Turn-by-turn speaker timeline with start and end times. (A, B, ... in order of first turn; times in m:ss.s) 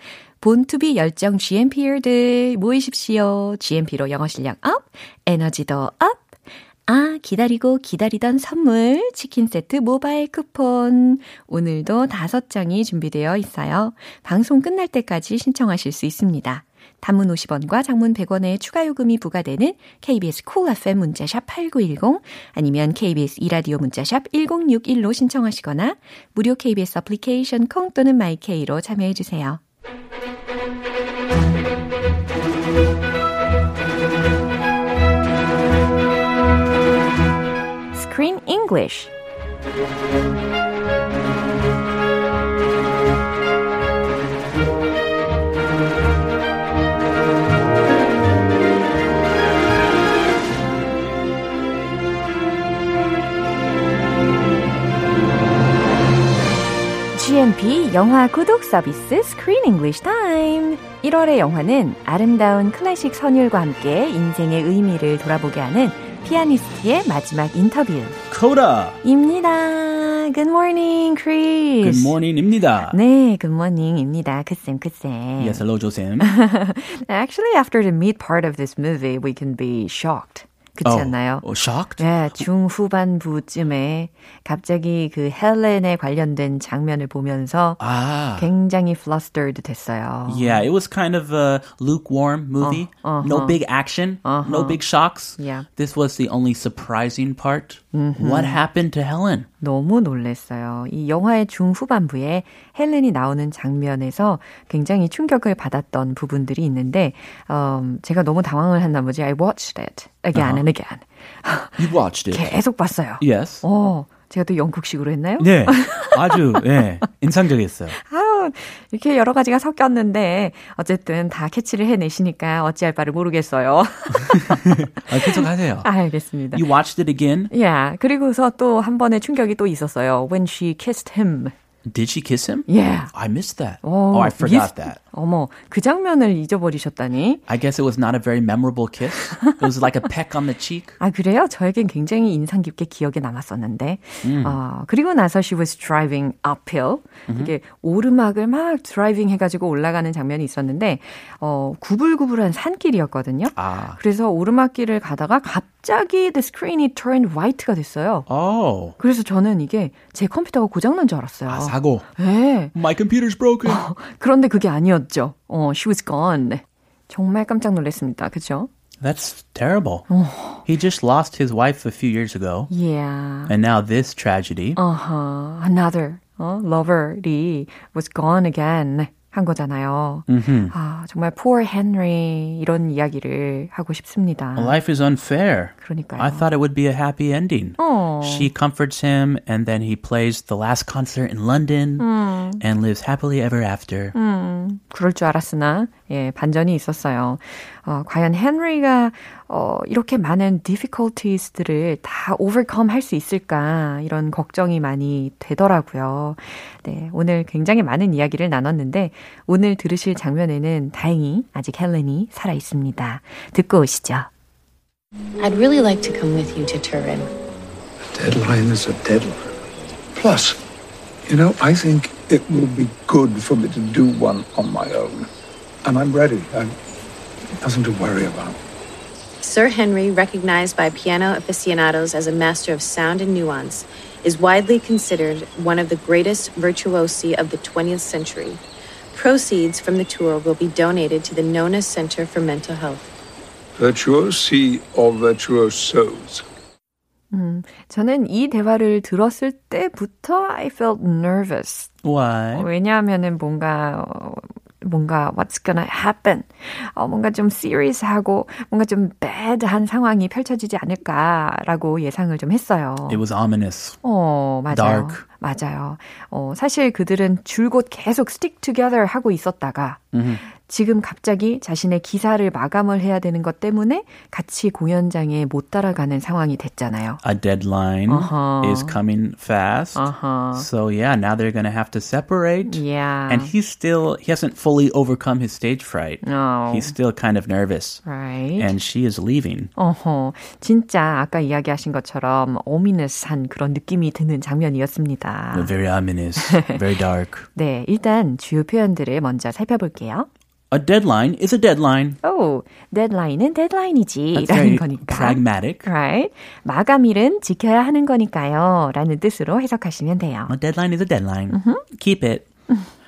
0:00.4-0:29.6 A
0:37.9-0:39.1 A
0:57.1-1:08.2 A
1:08.3-1:09.0 B
1:09.0-1:12.2 A
1:11.8-1:13.0 B
1:12.9-1:15.6 A
1:15.4-1:16.3 B
1:16.2-1:21.4 A
1:20.8-1:22.4 B
1:22.0-1:27.8 A
1:27.8-1:28.5 B
1:28.4-1:30.6 A
1:30.3-1:39.5 B
1:32.6-1:33.6 A
1:34.2-1:34.8 A
1:35.4-1:35.7 A
1:37.9-1:38.6 A
1:39.6-1:56.6 A
1:50.4-1:50.6 B
1:51.8-1:52.6 B
1:53.2-1:53.6 B
1:55.4-1:58.0 B
1:57.9-2:06.6 A
2:04.1-2:05.9 B
2:06.5-2:07.5 B
2:07.5-2:11.5 A
2:11.8-2:15.0 B
2:12.7-2:13.1 A
2:13.8-2:17.4 A
2:17.5-2:21.0 B
2:19.4-2:19.6 A
2:21.0-2:38.3 A
2:24.2-2:24.6 B
2:27.3-2:27.5 B
2:33.5-2:34.0 B
2:38.3-2:39.0 B
2:39.0-2:42.7 A
2:41.5-2:42.1 B
2:42.7-2:43.8 B
2:43.6-2:48.7 A
2:49.0-2:50.1 B
2:50.1-2:50.6 A
2:50.6-2:52.7 B
2:52.7-2:53.5 A
2:53.5-2:54.8 B
2:54.8-3:04.8 A
3:00.3-3:00.7 B
3:04.6-3:12.1 B
3:05.8-3:06.5 A
3:07.8-3:08.5 A
3:12.0-3:12.6 A
3:12.6-3:14.1 B
3:14.1-3:34.3 A
3:35.4-3:37.3 C
3:38.1-3:39.5 D
3:40.2-3:40.6 D
3:41.3-3:45.3 D
3:45.8-3:46.7 D
3:47.6-3:48.6 D
3:49.4-3:58.6 C
3:59.1-4:03.1 C
4:03.8-4:06.4 D
4:07.3-4:11.9 A
4:12.0-4:12.7 B
4:12.5-4:23.2 A
4:23.1-4:24.0 B
4:24.0-4:37.2 A
4:24.7-4:25.2 B
4:30.1-4:30.4 B
4:37.2-4:48.0 B
4:38.1-4:39.0 A
4:40.0-4:40.7 A
4:42.7-4:43.5 A
4:46.2-4:47.0 A
4:48.0-4:48.7 A
4:48.6-4:49.7 B
4:49.8-4:55.7 A
4:55.5-4:57.5 B
4:56.4-4:56.8 A
4:57.6-5:00.3 A
5:00.7-5:02.2 B
5:02.2-5:10.6 A
5:04.4-5:05.9 B
5:10.5-5:12.5 B
5:11.5-5:11.8 A